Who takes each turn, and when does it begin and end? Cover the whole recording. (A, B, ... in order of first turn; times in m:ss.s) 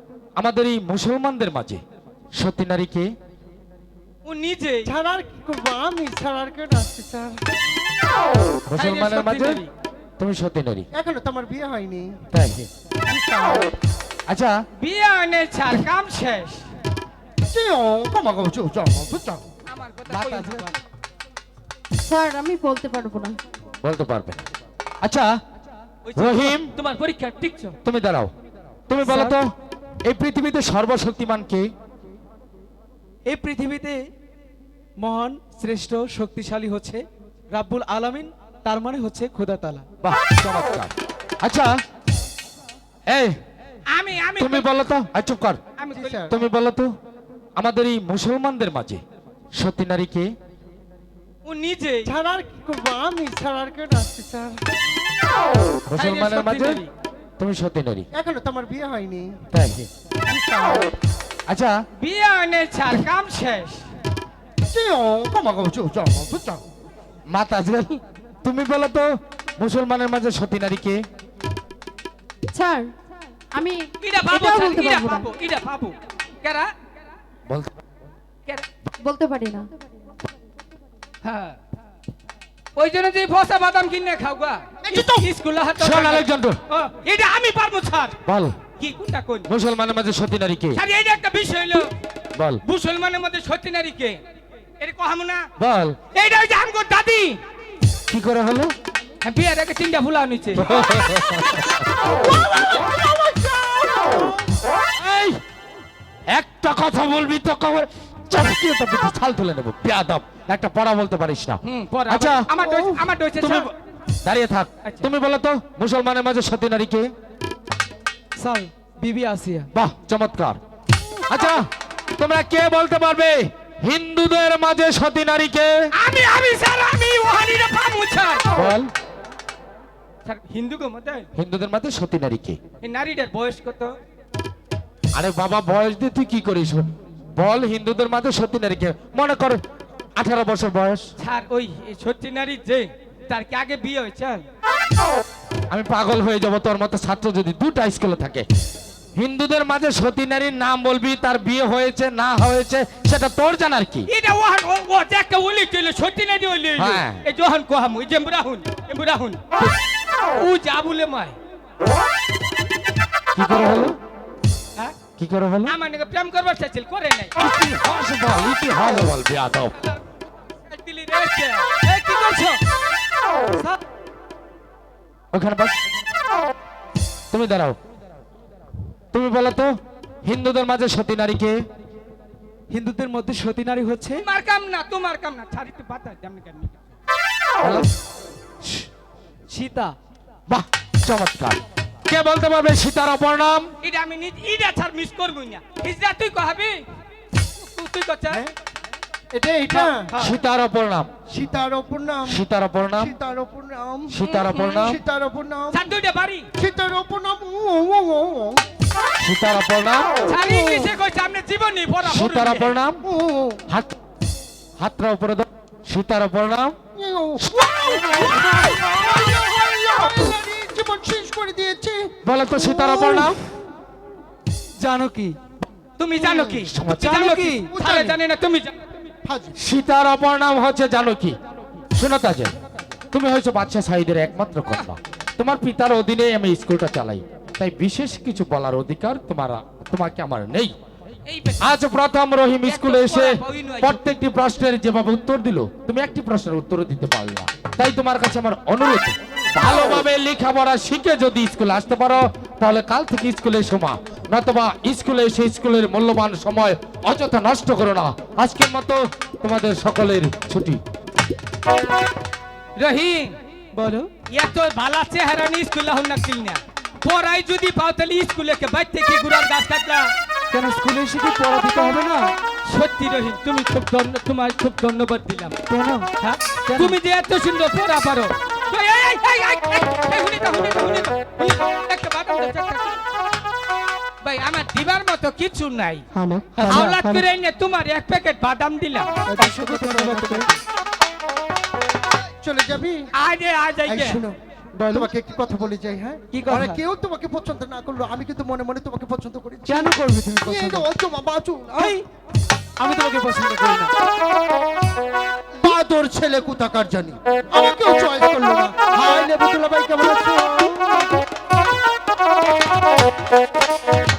0:00.4-0:01.8 A
0:02.4-0:03.1 A
0:04.2-0:04.9 B
0:04.8-0:07.4 C
0:08.7-0:09.6 A
0:08.8-0:09.7 B
0:10.2-0:10.9 A
0:10.9-0:12.2 C
0:12.3-0:12.7 A
0:13.0-0:13.7 C
0:14.3-0:14.5 A
0:14.8-0:16.7 B
0:17.4-0:19.4 C
0:19.6-0:20.8 B
0:22.0-0:23.4 D
0:23.8-0:24.4 A
0:25.0-0:25.3 A
0:26.0-0:27.8 B
0:26.2-0:26.7 A
0:27.8-0:28.3 A
0:28.9-0:29.5 A
0:29.0-0:29.4 E
0:30.0-0:31.7 A
0:33.3-0:34.1 E
0:35.0-0:39.8 E
0:40.0-0:41.7 A
0:43.1-0:43.3 A
0:43.9-0:44.8 B
0:44.4-0:45.6 A
0:45.8-0:46.3 B
0:45.9-0:46.4 C
0:46.3-0:46.9 A
0:47.6-0:49.0 A
0:49.6-0:50.3 A
0:51.4-0:52.1 B
0:52.0-0:54.6 C
0:55.9-0:56.8 A
0:56.0-0:56.9 B
0:57.4-0:58.1 A
0:58.1-0:59.4 C
0:59.5-0:59.9 A
1:00.2-1:00.9 C
1:01.5-1:01.7 A
1:02.0-1:03.8 B
1:04.7-1:06.6 C
1:07.3-1:11.0 A
1:12.5-1:12.9 D
1:13.6-1:15.3 D
1:14.0-1:16.7 B
1:17.5-1:17.8 A
1:19.0-1:19.7 D
1:21.2-1:21.6 B
1:22.8-1:28.2 B
1:24.8-1:25.3 C
1:25.8-1:26.6 A
1:28.2-1:28.5 A
1:28.8-1:29.5 B
1:29.5-1:30.8 A
1:30.8-1:31.9 B
1:32.4-1:32.6 A
1:32.6-1:34.2 B
1:34.8-1:35.5 B
1:35.6-1:36.0 A
1:36.1-1:37.4 B
1:38.1-1:38.7 A
1:39.2-1:40.9 B
1:40.6-1:42.1 A
1:42.1-1:44.3 C
1:45.0-1:45.4 A
1:46.3-1:52.4 A
1:51.6-1:53.7 B
1:52.6-1:53.7 C
1:54.2-1:57.1 A
1:54.8-1:55.1 B
1:58.4-1:59.7 E
1:59.7-2:00.6 A
2:01.3-2:01.6 A
2:02.2-2:05.7 A
2:06.0-2:08.5 B
2:08.5-2:08.9 A
2:10.2-2:11.3 B
2:11.3-2:12.6 A
2:12.8-2:14.0 B
2:15.1-2:19.6 A
2:20.2-2:21.1 A
2:21.2-2:24.4 B
2:25.7-2:28.5 A
2:29.2-2:34.1 A
2:34.1-2:39.4 B
2:36.8-2:37.2 A
2:40.3-2:41.4 B
2:43.3-2:44.0 A
2:45.2-2:45.8 A
2:45.7-2:47.3 B
2:47.4-2:49.8 A
2:50.7-2:52.5 B
2:53.5-2:53.8 E
2:55.3-2:55.8 A
2:57.3-2:57.8 A
2:59.1-2:59.7 A
3:00.2-3:01.6 A
3:02.7-3:04.2 E
3:04.2-3:06.8 B
3:07.6-3:07.9 A
3:09.5-3:09.9 E
3:10.5-3:13.7 A
3:13.8-3:16.8 B
3:17.6-3:18.4 B
3:19.3-3:20.1 C
3:19.7-3:20.3 B
3:20.2-3:21.1 A
3:21.3-3:22.4 C
3:22.2-3:23.1 A
3:23.0-3:25.8 C
3:24.1-3:25.0 A
3:24.2-3:24.8 B
3:25.7-3:26.5 B
3:26.6-3:28.6 C
3:29.2-3:30.2 A
3:30.2-3:32.7 B
3:30.4-3:30.9 C
3:32.0-3:33.0 A
3:33.0-3:33.6 C
3:33.7-3:34.0 A
3:34.8-3:36.8 A
3:36.9-3:42.1 C
3:37.4-3:38.1 A
3:42.2-3:43.4 A
3:42.6-3:43.2 C
3:44.8-3:45.4 E
3:46.0-3:48.8 B
3:46.2-3:46.6 C
3:46.7-3:47.2 A
3:47.0-3:47.7 E
3:47.7-3:48.2 C
3:49.2-3:49.6 C
3:49.6-3:51.4 A
3:51.9-3:52.5 A
3:53.1-4:00.7 A
4:01.3-4:01.8 B
4:01.6-4:20.8 A
4:02.6-4:04.0 B
4:22.8-4:23.3 B
4:23.8-4:24.1 E
4:24.3-4:30.1 B
4:30.5-4:32.3 E
4:32.6-4:35.5 B
4:35.7-4:36.1 E
4:36.2-4:43.0 B
4:36.6-4:37.0 E
4:44.2-4:46.0 B
4:46.2-4:47.2 D
4:46.4-4:46.9 E
4:46.6-4:49.1 B
4:49.2-4:50.5 C
4:49.4-4:50.6 E
4:52.4-4:53.1 C
4:53.1-4:54.2 B
4:53.8-4:54.4 C
4:54.8-4:55.1 E
4:54.9-5:02.0 C
4:56.3-4:56.8 E
4:59.6-5:00.9 E
5:01.7-5:02.0 E
5:02.8-5:03.9 E
5:05.5-5:11.2 C